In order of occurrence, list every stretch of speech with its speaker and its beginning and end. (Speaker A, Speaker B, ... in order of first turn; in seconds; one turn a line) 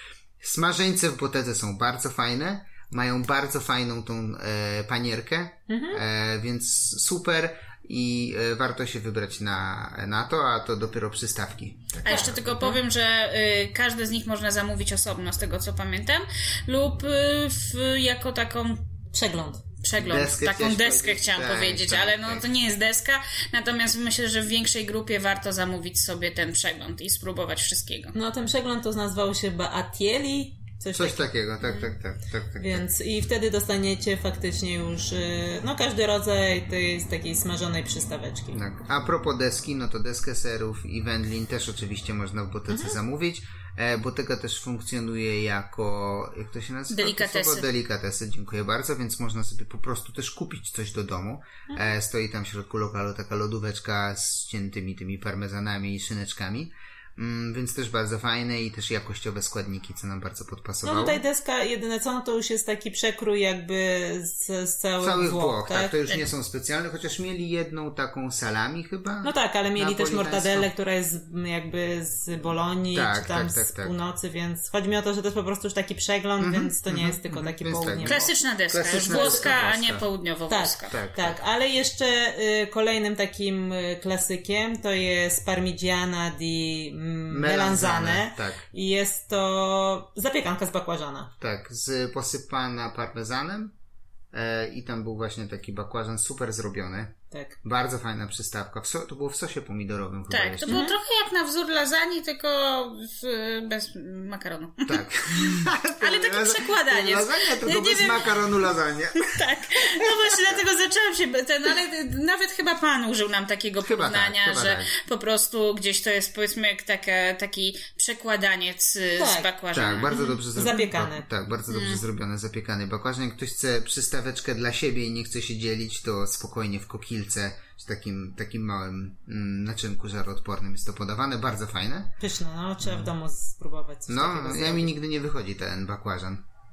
Speaker A: 0.4-12.7
Speaker B: 5.7-6.0
Speaker B: 12.0-12.8
Speaker C: 12.1-18.9
Speaker B: 19.1-19.8
Speaker C: 19.8-28.1
Speaker A: 19.9-22.4
Speaker B: 28.1-31.3
Speaker A: 30.9-32.8
Speaker B: 32.6-38.6
Speaker A: 38.5-61.2
Speaker B: 42.7-43.0
Speaker C: 46.9-47.7
Speaker B: 60.8-66.0
Speaker A: 65.0-70.7
Speaker B: 69.2-78.3
Speaker A: 72.9-73.9
Speaker A: 76.4-80.0
Speaker C: 78.0-81.0
Speaker B: 79.0-79.6
Speaker B: 80.5-91.3
Speaker A: 80.9-81.4
Speaker A: 87.3-88.6
Speaker A: 91.4-93.7
Speaker A: 94.3-100.8
Speaker B: 97.3-97.6
Speaker C: 100.3-108.2
Speaker B: 100.7-101.0
Speaker A: 104.9-110.6
Speaker C: 109.2-120.1
Speaker A: 113.8-114.9
Speaker B: 119.2-119.5
Speaker A: 119.7-132.1
Speaker B: 120.1-121.3
Speaker C: 121.7-122.0
Speaker B: 132.2-134.9
Speaker A: 134.1-136.4